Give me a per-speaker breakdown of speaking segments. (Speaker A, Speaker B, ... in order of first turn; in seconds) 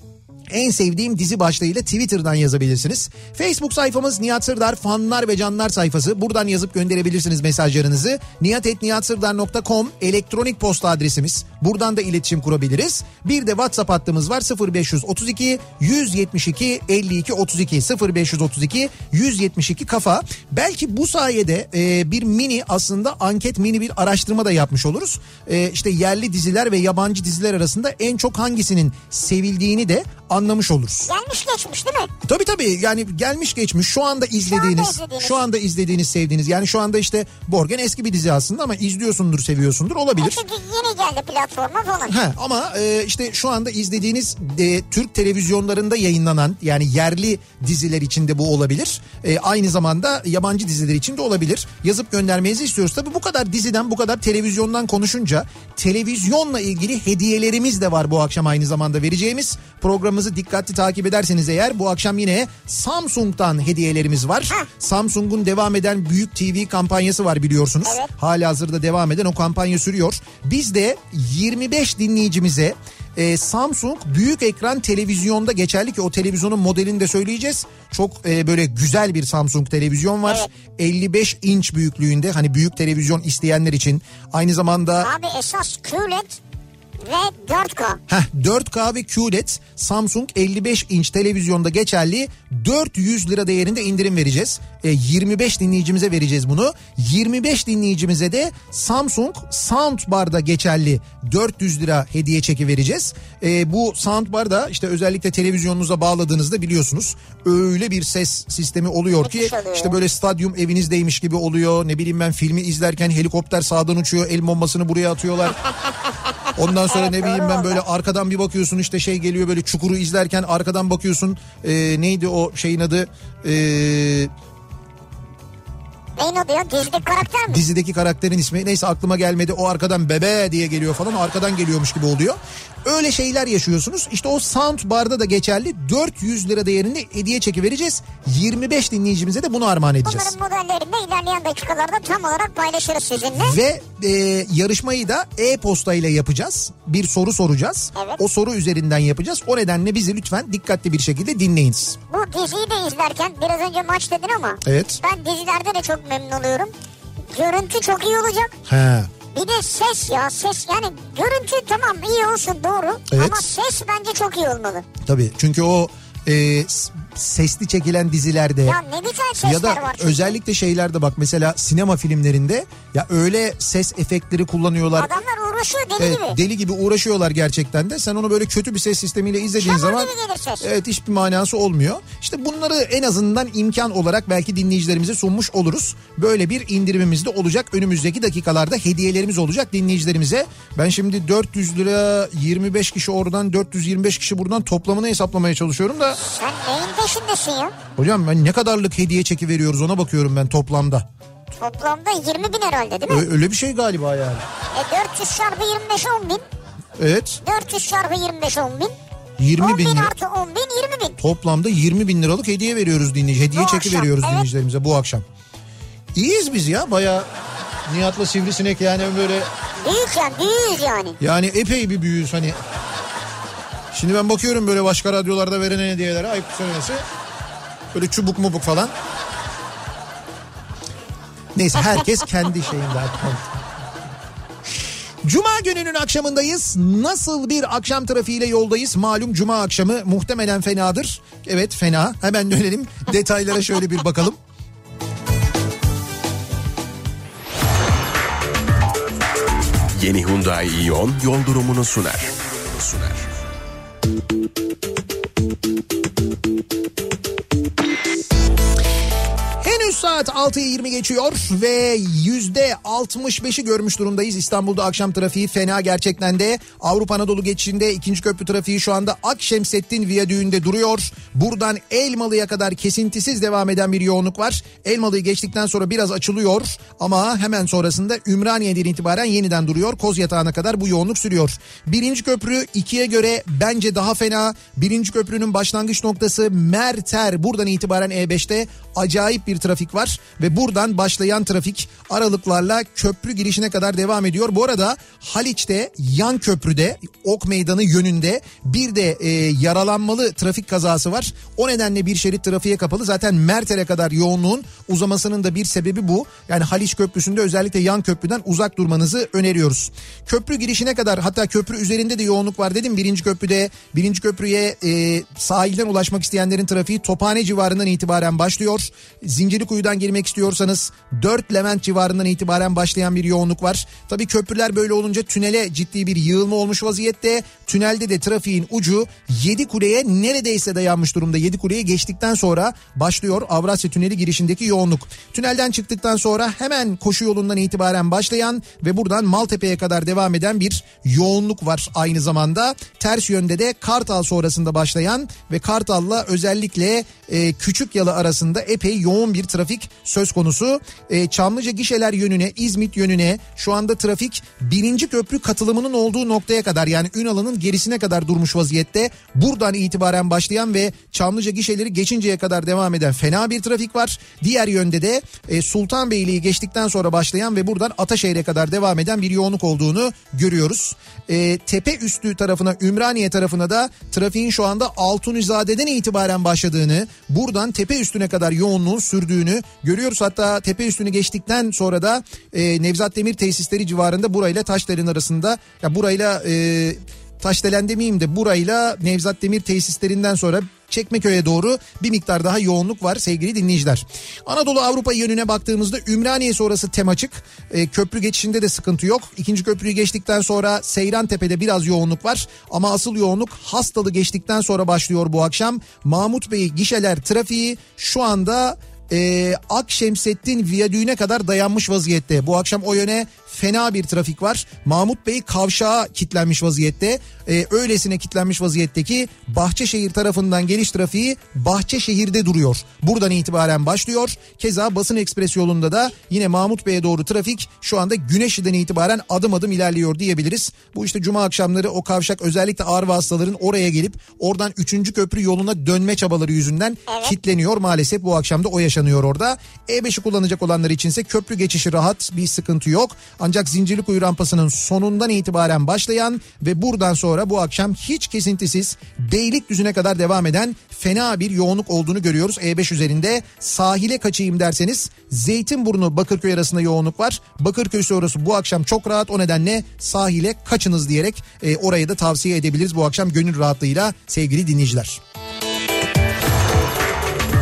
Speaker A: 0.5-31.1, 32.2-40.4, 42.1-85.1, 88.1-115.5, 116.5-124.3, 127.5-140.3, 143.4-152.0, 154.6-155.0, 158.7-159.1, 163.1-163.4, 165.0-168.8, 169.4-175.1, 176.0-196.2, 197.9-201.1, 203.1-204.4, 207.0-207.4, 209.4-210.1, 211.2-215.2, 216.2-217.3, 217.8-219.5, 221.2-222.6, 223.9-227.0, 227.9-228.9, 231.5-233.5, 235.2-244.4, 259.6-465.2
Speaker B: 31.1-32.1, 34.5-35.4, 40.2-42.1, 67.8-68.1, 85.0-86.4, 87.0-88.0, 109.2-109.9, 116.9-117.8, 126.2-127.6, 140.0-143.6, 147.9-148.2, 152.1-156.7, 157.3-158.5, 159.3-164.8, 168.6-170.4, 174.9-176.4, 179.6-180.7, 196.1-197.7, 201.6-203.2, 204.7-206.4, 207.4-208.9, 209.6-211.2, 213.5-214.5, 219.8-221.2, 437.1-437.3
Speaker C: 249.9-253.2